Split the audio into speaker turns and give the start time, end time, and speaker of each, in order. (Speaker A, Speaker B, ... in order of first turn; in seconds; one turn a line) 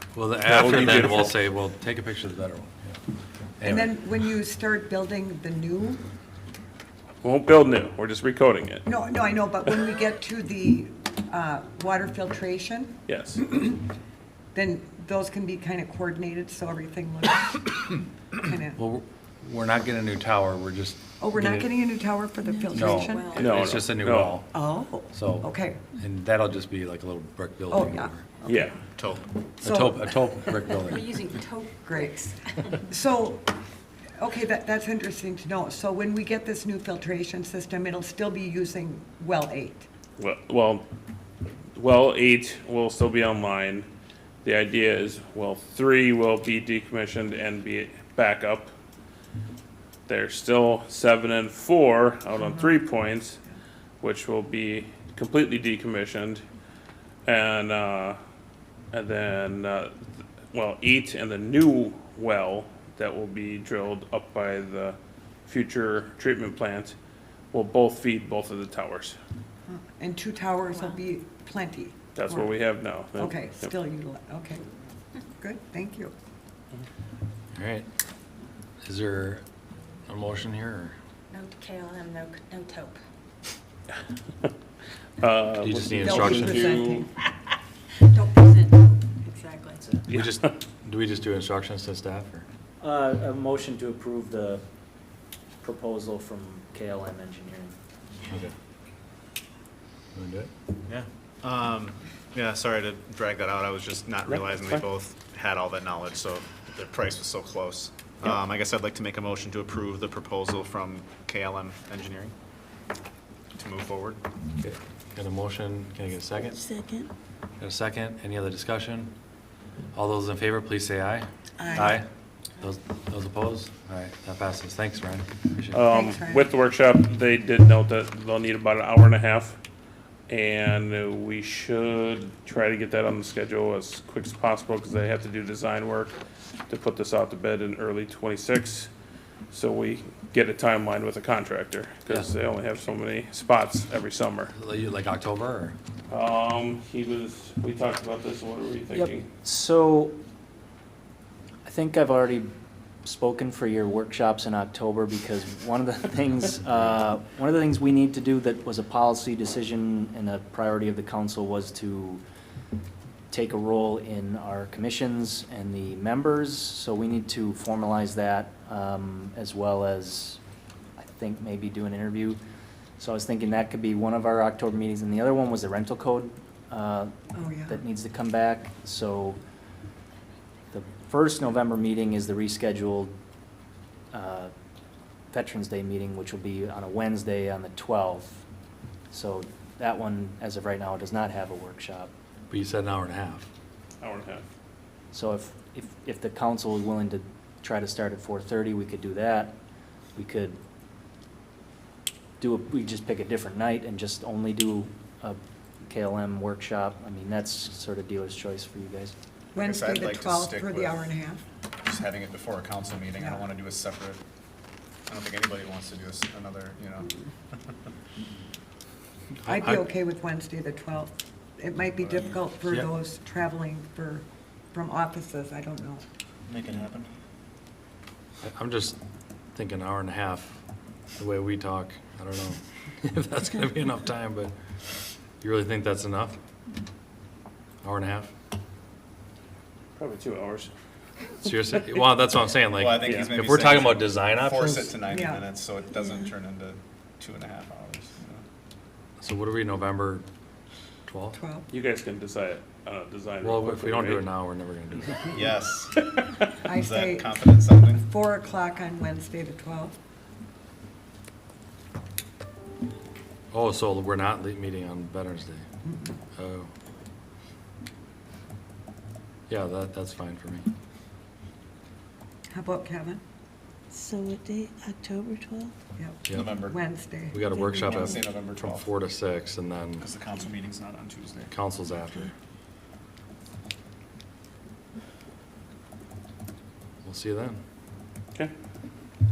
Speaker A: 0.1-3.0
Speaker B: 0.4-1.4
Speaker A: 3.6-3.9
Speaker C: 3.6-6.0
Speaker B: 7.2-8.8
Speaker C: 8.8-13.8
Speaker B: 13.1-13.4
Speaker C: 14.5-17.7
Speaker C: 18.3-18.8
Speaker A: 18.8-21.7
Speaker C: 21.2-23.3
Speaker D: 22.4-23.8
Speaker A: 22.7-24.5
Speaker B: 23.3-24.4
Speaker C: 24.5-25.8
Speaker A: 25.1-28.2
Speaker C: 27.7-28.6
Speaker B: 28.4-28.7
Speaker E: 28.9-29.3
Speaker C: 29.6-30.4
Speaker A: 29.6-31.1
Speaker D: 30.7-32.8
Speaker C: 31.8-33.5
Speaker C: 34.2-39.9
Speaker B: 40.2-40.8
Speaker B: 41.8-43.9
Speaker B: 44.4-48.7
Speaker B: 50.1-53.4
Speaker C: 52.4-52.7
Speaker B: 54.0-56.4
Speaker B: 57.2-58.2
Speaker B: 58.9-66.9
Speaker B: 67.5-69.2
Speaker C: 69.7-72.5
Speaker D: 70.7-71.0
Speaker B: 72.1-73.7
Speaker C: 73.2-74.6
Speaker C: 75.4-76.1
Speaker A: 77.5-77.9
Speaker A: 78.8-79.4
Speaker A: 80.1-80.9
Speaker D: 81.3-83.0
Speaker B: 85.2-87.1
Speaker A: 85.6-86.9
Speaker C: 86.0-87.1
Speaker D: 88.0-89.9
Speaker B: 90.1-90.3
Speaker A: 90.1-92.5
Speaker F: 92.8-94.6
Speaker F: 95.6-97.8
Speaker A: 100.1-100.5
Speaker E: 100.9-112.3
Speaker B: 104.3-104.8
Speaker E: 113.6-114.2
Speaker A: 114.6-116.6
Speaker G: 116.5-117.1
Speaker A: 117.6-119.1
Speaker A: 119.9-122.1
Speaker C: 121.6-122.0
Speaker A: 122.6-125.8
Speaker B: 125.7-129.6
Speaker C: 125.9-126.5
Speaker B: 130.3-136.1
Speaker B: 136.7-138.9
Speaker B: 139.5-144.5
Speaker A: 144.5-145.8
Speaker B: 146.1-149.2
Speaker F: 148.9-150.2
Speaker F: 151.6-152.5
Speaker F: 153.0-162.2
Speaker F: 163.3-170.4
Speaker F: 171.0-172.4
Speaker F: 173.0-177.1
Speaker C: 177.3-177.8
Speaker F: 177.7-179.4
Speaker F: 180.7-183.1
Speaker F: 184.1-184.5
Speaker F: 185.3-188.4
Speaker F: 189.1-192.1
Speaker A: 192.5-193.5
Speaker B: 194.0-194.4
Speaker F: 195.1-199.6
Speaker F: 200.1-200.6
Speaker F: 202.4-209.1
Speaker C: 209.5-211.4
Speaker E: 209.6-211.1
Speaker E: 211.8-214.2
Speaker C: 213.2-213.4
Speaker E: 215.1-217.1
Speaker A: 219.4-219.8
Speaker C: 219.4-226.0
Speaker E: 226.4-227.1
Speaker A: 228.4-229.0
Speaker A: 229.5-230.6
Speaker A: 231.2-234.5
Speaker A: 235.4-236.4
Speaker A: 237.8-238.3
Speaker B: 239.9-240.7
Speaker A: 241.4-244.9
Speaker E: 242.7-248.4
Speaker B: 243.0-243.3
Speaker C: 245.1-245.4
Speaker A: 249.2-250.2
Speaker A: 251.1-251.4
Speaker C: 251.3-251.7
Speaker B: 251.7-254.3
Speaker A: 253.4-255.2
Speaker E: 255.3-256.0
Speaker C: 256.6-259.9
Speaker E: 256.7-258.1
Speaker A: 263.5-265.6
Speaker C: 265.8-266.1
Speaker A: 266.4-266.7
Speaker A: 269.5-270.7
Speaker C: 272.5-273.2
Speaker G: 273.9-275.7
Speaker C: 276.0-277.9
Speaker E: 276.3-276.8
Speaker A: 277.3-280.0
Speaker E: 277.8-278.9
Speaker E: 280.0-281.5
Speaker A: 281.5-282.3
Speaker A: 287.0-287.6